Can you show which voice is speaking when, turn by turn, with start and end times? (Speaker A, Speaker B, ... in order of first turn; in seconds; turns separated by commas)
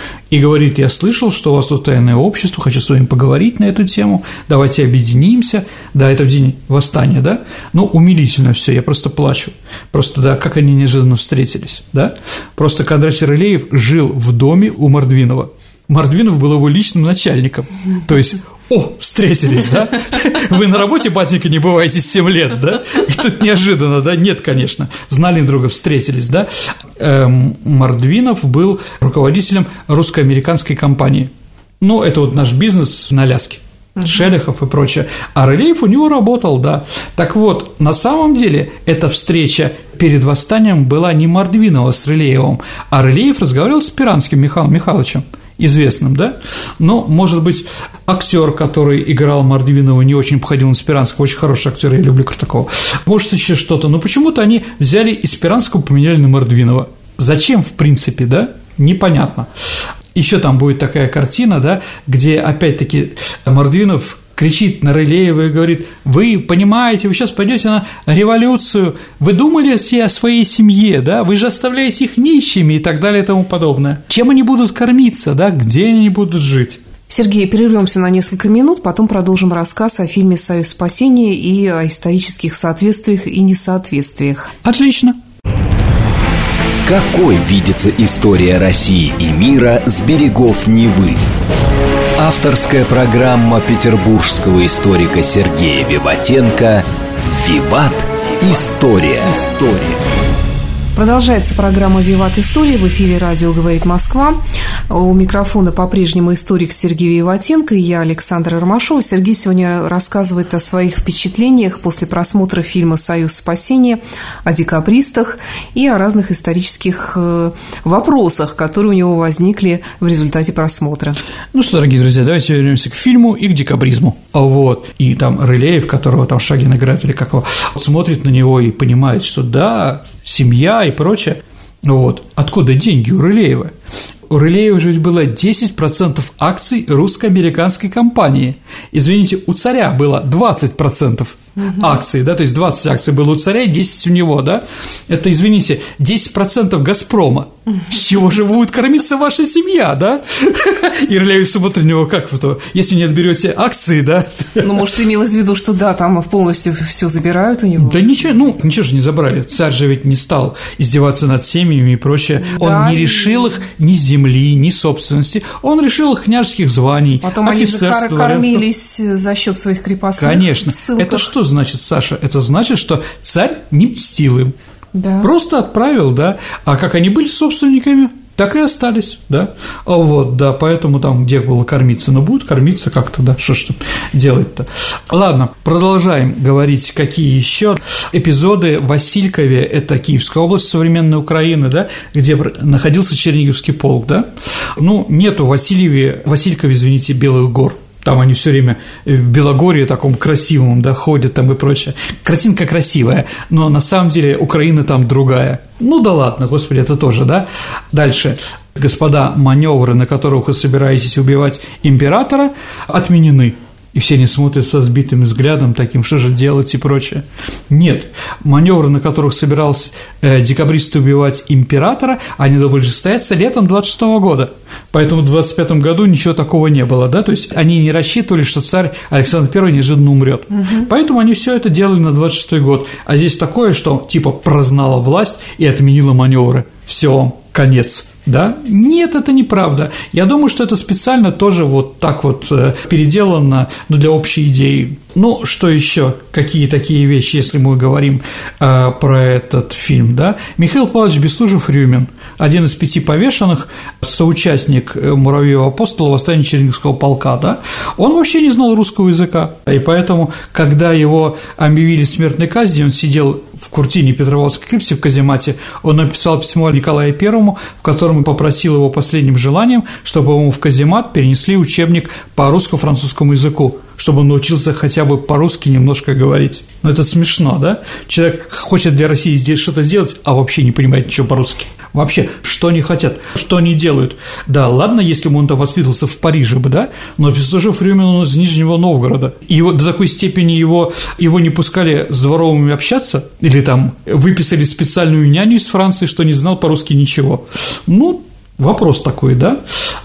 Speaker A: 0.3-59.5, Speaker A: 60.1-76.8, Speaker B: 77.1-84.5, Speaker A: 84.6-85.2, Speaker C: 86.8-91.2, Speaker C: 92.2-100.0, Speaker B: 101.0-104.4, Speaker B: 104.9-121.2, Speaker A: 121.5-133.7, Speaker A: 134.3-154.8, Speaker B: 154.6-158.0, Speaker A: 157.8-168.7, Speaker B: 162.4-163.6, Speaker B: 167.2-171.3, Speaker A: 170.2-174.5, Speaker B: 174.9-175.3, Speaker A: 175.2-299.6